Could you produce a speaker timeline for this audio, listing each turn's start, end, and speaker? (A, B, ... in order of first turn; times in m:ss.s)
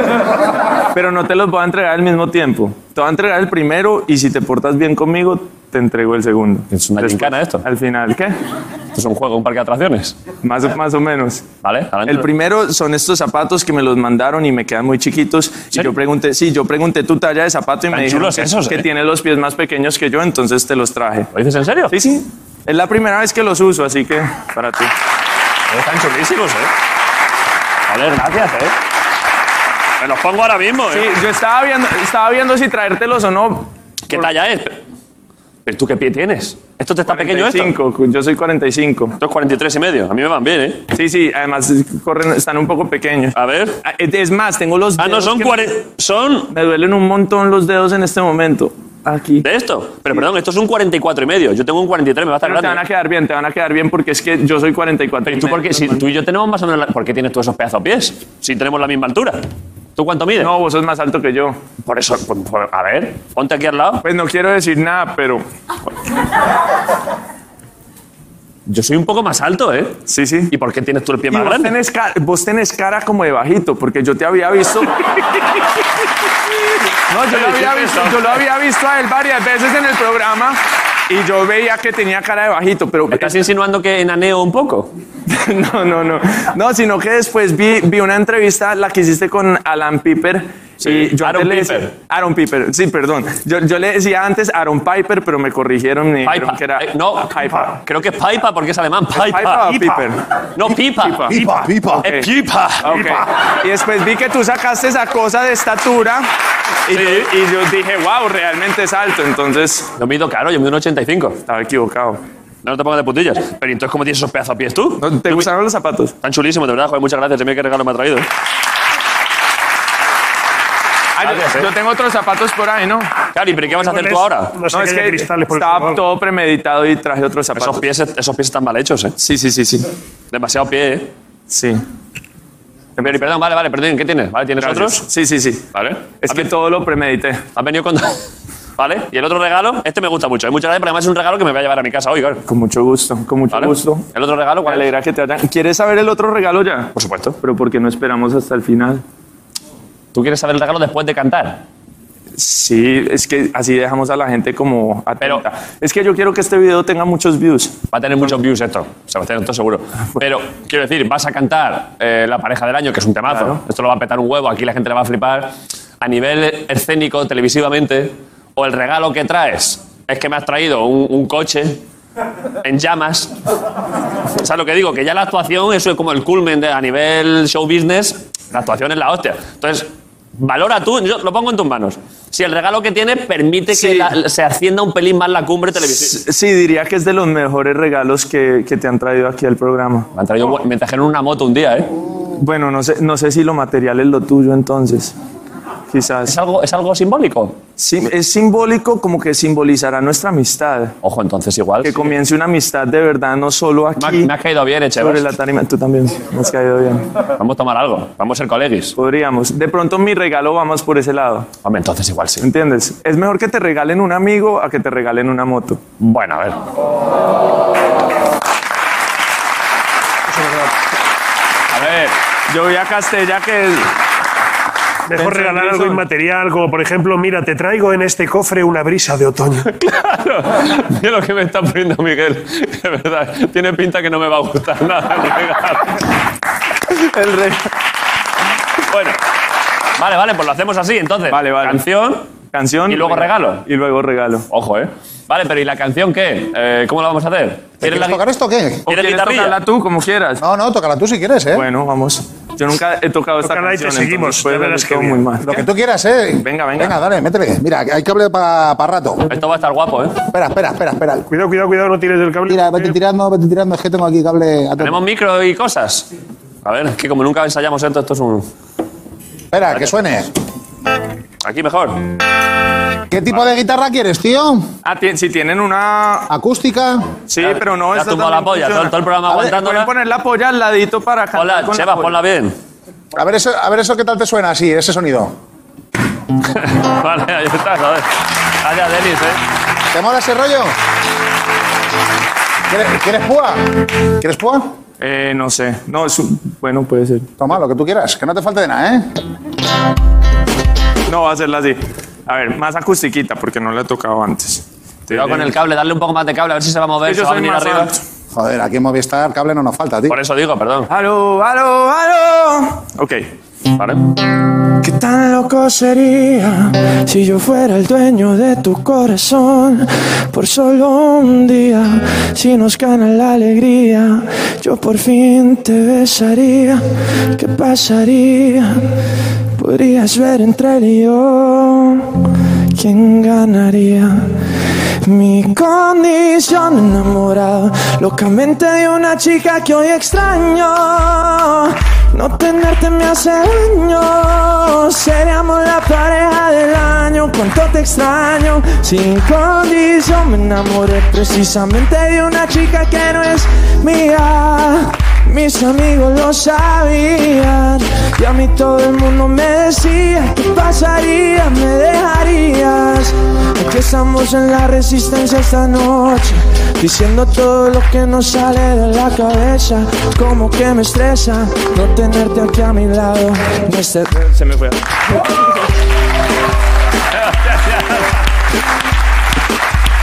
0:00.9-0:08.4 A
0:06.7-0:07.6 B
0:08.9-0:10.2 B
0:10.4-0:11.5 A
0:11.6-0:12.3 B
0:12.1-0:21.3 A
0:17.9-0:18.9 B
0:21.3-0:22.0 B
0:21.9-0:24.9 A
0:25.7-0:26.7 B
0:27.9-0:28.8 B
0:30.0-0:31.1 B
0:30.9-0:34.3 A
0:34.1-0:34.8 B
0:35.7-0:37.7 B
0:37.1-0:39.2 A
0:39.2-0:40.9 B
0:40.9-0:45.7 A
0:43.3-0:43.8 B
0:45.0-0:46.5 B
0:46.5-0:49.5 A
0:49.4-0:52.8 B
0:52.4-0:56.0 A
0:55.2-0:59.4 B
1:00.0-1:00.5 B
1:00.4-1:01.6 A
1:01.8-1:04.0 B
1:04.0-1:05.4 A
1:08.7-1:11.7 B
1:10.1-1:10.5 A
1:11.3-1:15.2 A
1:17.1-1:23.4 A
1:17.2-1:18.4 B
1:23.1-1:24.9 B
1:25.3-1:37.8 A
1:30.8-1:31.9 B
1:36.2-1:39.7 B
1:39.1-1:40.2 A
1:40.6-1:41.4 B
1:40.9-1:42.3 A
1:41.4-1:41.7 C
1:41.5-1:42.0 D
1:42.0-1:43.2 B
1:42.8-1:46.3 A
1:46.9-1:49.9 A
1:46.9-1:47.3 B
1:50.0-1:51.4 B
1:51.5-1:52.2 A
1:52.6-1:55.5 B
1:55.0-1:56.1 A
1:56.2-1:58.3 B
2:01.2-2:03.1 A
2:01.2-2:01.7 B
2:03.3-2:04.5 B
2:03.8-2:06.0 C
2:04.7-2:07.9 A
2:07.6-2:09.2 B
2:09.2-2:09.9 A
2:10.3-2:11.1 B
2:11.5-2:11.8 A
2:13.0-2:15.1 B
2:14.6-2:15.6 A
2:15.7-2:16.5 B
2:16.2-2:17.4 A
2:17.6-2:18.2 B
2:18.8-2:22.4 B
2:22.5-2:24.1 A
2:23.5-2:24.9 B
2:24.6-2:29.0 A
2:27.0-2:27.4 B
2:30.1-2:31.6 B
2:32.4-2:37.8 A
2:37.9-2:51.8 B
2:43.3-2:43.6 A
2:52.6-2:53.3 B
2:54.4-3:06.2 B
3:03.7-3:04.1 A
3:05.9-3:10.1 A
3:10.2-3:11.9 B
3:12.4-3:15.1 A
3:15.9-3:16.4 A
3:16.3-3:17.6 B
3:17.8-3:20.9 A
3:21.0-3:22.1 B
3:21.8-3:24.3 A
3:24.0-3:25.3 B
3:25.0-3:27.0 A
3:27.4-3:28.9 B
3:29.0-3:31.5 A
3:31.6-3:32.5 B
3:32.4-3:35.8 A
3:36.0-3:36.6 B
3:40.3-3:40.7 C
3:41.7-3:42.2 B
3:42.5-3:43.9 A
3:45.1-3:49.7 C
3:45.1-3:46.0 A
3:49.7-3:56.0 B
3:56.9-3:57.7 A
3:58.9-3:59.2 B
4:00.0-4:02.3 B
4:01.3-4:01.8 A
4:02.5-4:04.5 A
4:02.9-4:03.6 B
4:04.5-4:08.2 B
4:07.8-4:08.9 D
4:08.9-4:10.4 A
4:08.9-4:09.6 B
4:10.4-4:11.7 D
4:11.5-4:15.6 A
4:13.4-4:15.2 C
4:15.4-4:19.3 D
4:16.4-4:17.0 A
4:19.3-4:20.2 B
4:20.3-4:21.3 D
4:21.3-4:23.0 C
4:22.5-4:25.0 D
4:24.8-4:26.1 B
4:26.6-4:28.5 B
4:29.5-4:30.3 D
4:31.4-4:32.0 B
4:33.1-4:34.7 D
4:34.8-4:36.3 A
4:36.3-4:37.1 D
4:37.3-4:42.2 A
4:37.4-4:39.9 B
4:41.4-4:42.6 B
4:43.1-4:45.4 D
4:46.4-4:48.1 B
4:48.6-4:49.4 B
4:49.9-4:50.7 D
4:52.7-4:54.8 D
4:55.0-4:57.3 A
4:57.4-4:59.2 D
5:01.1-5:05.6 A
5:05.1-5:07.9 B
5:07.0-5:08.0 A
5:08.3-5:10.2 D
5:10.1-5:10.9 B
5:10.9-5:13.3 A
5:13.8-5:14.0 B
5:14.8-5:28.9 E
5:29.6-5:32.2 E
5:32.7-5:34.4 E
5:35.0-6:14.2 E
6:14.1-6:14.8 A
6:17.1-6:18.2 B